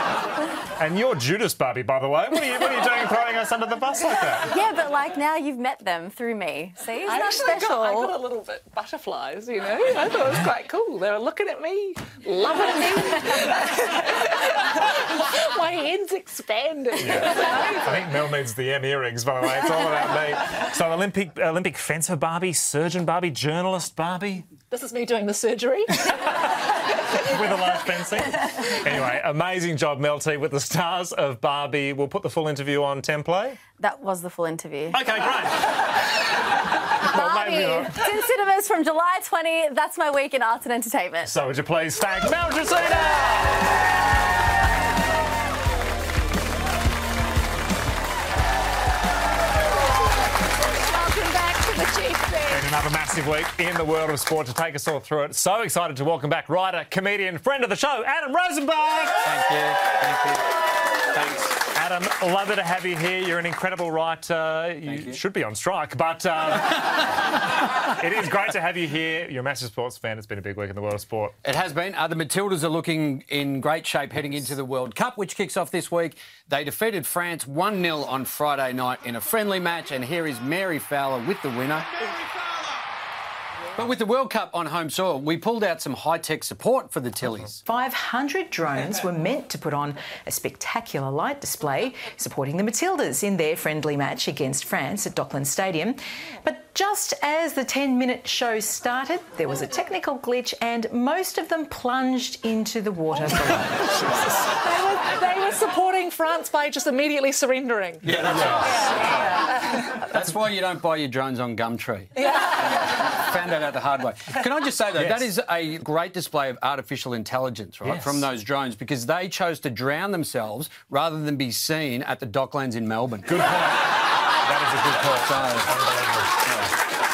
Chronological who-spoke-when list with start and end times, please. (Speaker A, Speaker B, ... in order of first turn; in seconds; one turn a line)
Speaker A: 0.8-4.5
Speaker B: 4.5-8.1
Speaker C: 7.1-18.1
Speaker A: 17.0-24.5
Speaker C: 24.7-26.3
Speaker A: 27.2-33.6
Speaker B: 33.8-35.0
Speaker A: 34.9-35.6
Speaker A: 37.1-38.0
Speaker B: 37.1-41.3
Speaker A: 41.2-43.7
Speaker C: 50.9-52.6
Speaker A: 52.5-59.3
Speaker D: 59.2-60.5
Speaker D: 61.1-61.6
Speaker A: 61.7-67.2
Speaker D: 64.8-65.2
Speaker A: 68.0-71.3
Speaker D: 71.4-81.9
Speaker D: 83.8-87.6
Speaker E: 87.7-95.9
Speaker E: 96.5-103.6
Speaker C: 104.5-108.1
Speaker D: 108.1-108.9
Speaker C: 109.5-109.8
Speaker D: 110.0-112.1
Speaker C: 112.2-112.8
Speaker D: 112.7-123.3
Speaker A: 115.0-115.3
Speaker A: 117.8-118.2
Speaker A: 123.2-126.4
Speaker D: 125.2-125.7